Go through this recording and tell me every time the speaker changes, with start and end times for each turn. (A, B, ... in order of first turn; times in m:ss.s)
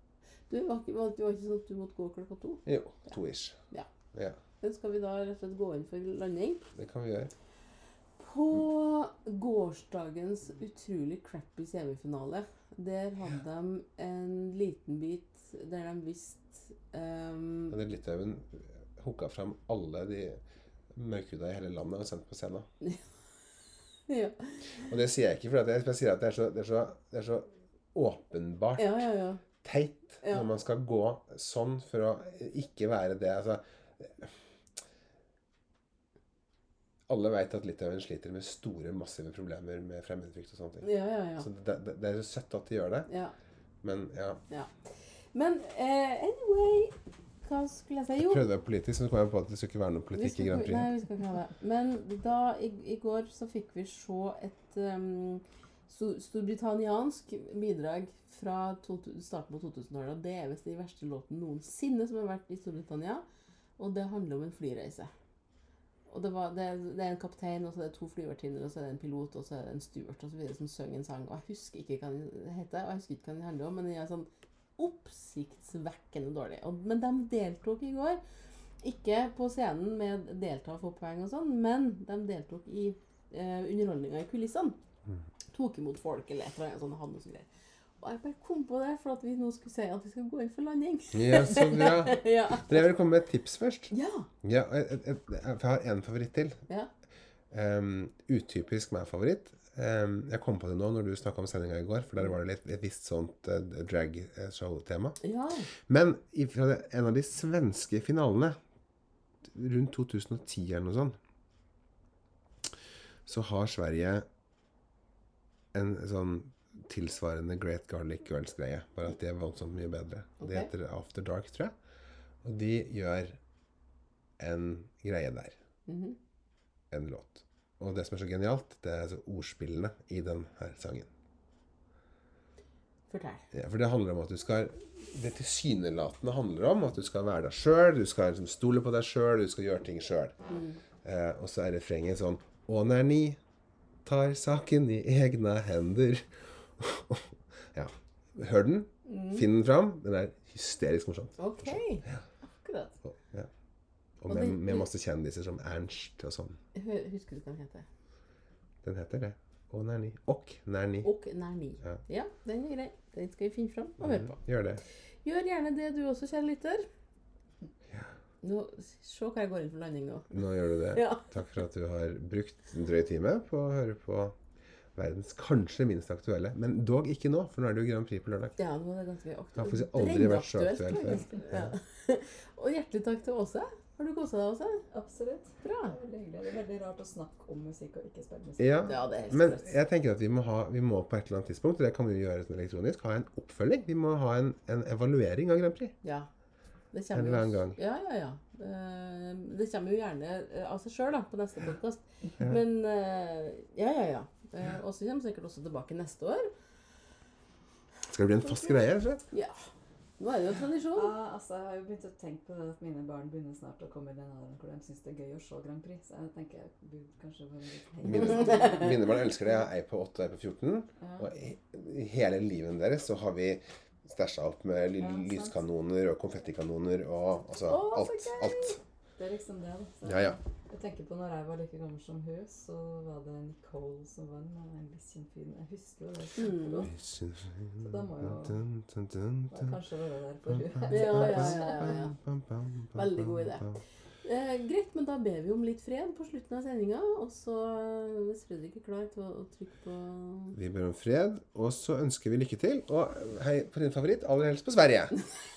0:00.5-0:03.2 A
0:02.7-0:03.6 B
0:04.1-0:04.4 B
0:04.6-0:06.6 A
0:06.8-0:07.3 B
0:08.2-0:17.8 A
0:17.7-0:20.4 B
0:20.9-0:22.7 B
0:24.1-0:24.9 A
0:24.9-0:29.0 B
0:28.8-0:29.4 A
0:29.6-0:34.4 B
0:30.2-0:30.5 A
0:37.1-0:43.1 B
0:40.8-0:41.5 A
0:43.1-0:43.3 A
0:43.8-0:44.4 B
0:44.5-0:48.5 A
0:48.2-0:51.0 B
0:50.2-1:03.2 A
1:03.8-1:05.1 A
1:06.1-1:18.2 A
1:18.8-1:24.8 A
1:25.5-1:27.5 A
1:28.0-1:33.0 A
1:31.1-1:33.9 B
1:33.9-1:34.3 A
1:34.4-1:36.6 B
1:37.5-1:45.2 B
1:45.2-1:45.7 A
1:45.9-1:48.6 B
1:49.4-1:51.2 B
1:53.2-1:54.3 B
1:55.7-2:01.8 B
2:00.4-2:00.7 A
2:02.4-2:03.4 B
2:04.4-2:05.6 B
2:05.9-2:06.2 A
2:06.9-2:11.1 B
2:13.1-2:13.5 A
2:13.5-2:20.4 B
2:20.5-2:20.8 A
2:21.0-2:23.4 B
2:24.0-2:32.2 B
2:29.1-2:29.5 A
2:31.4-2:33.0 A
2:33.1-2:33.5 B
2:34.2-2:36.6 B
2:34.3-2:34.9 A
2:36.8-2:37.9 A
2:38.8-2:41.1 B
2:41.0-2:44.4 A
2:44.0-2:44.8 B
2:45.2-2:46.9 A
2:48.4-2:51.3 A
2:50.3-2:54.4 B
2:55.0-2:58.6 B
2:58.6-3:04.8 A
2:59.6-3:01.8 B
3:04.9-3:09.0 C
3:05.6-3:05.9 A
3:08.6-3:16.0 B
3:08.9-3:09.8 A
3:16.0-3:16.3 A
3:16.9-3:26.5 A
3:17.1-3:17.8 B
3:28.1-3:29.2 B
3:28.4-3:29.6 A
3:30.2-3:31.1 A
3:31.0-3:39.0 C
3:38.0-3:48.8 B
3:38.1-3:39.0 A
3:41.0-3:41.3 C
3:45.0-3:45.6 C
3:47.6-3:48.8 A
3:49.2-3:56.9 C
3:50.0-3:50.4 B
3:56.4-3:56.9 A
3:56.9-3:59.8 B
3:57.8-3:58.6 C
3:59.5-4:02.0 C
4:00.5-4:03.8 B
4:00.9-4:02.2 A
4:03.0-4:10.6 A
4:10.5-4:15.2 B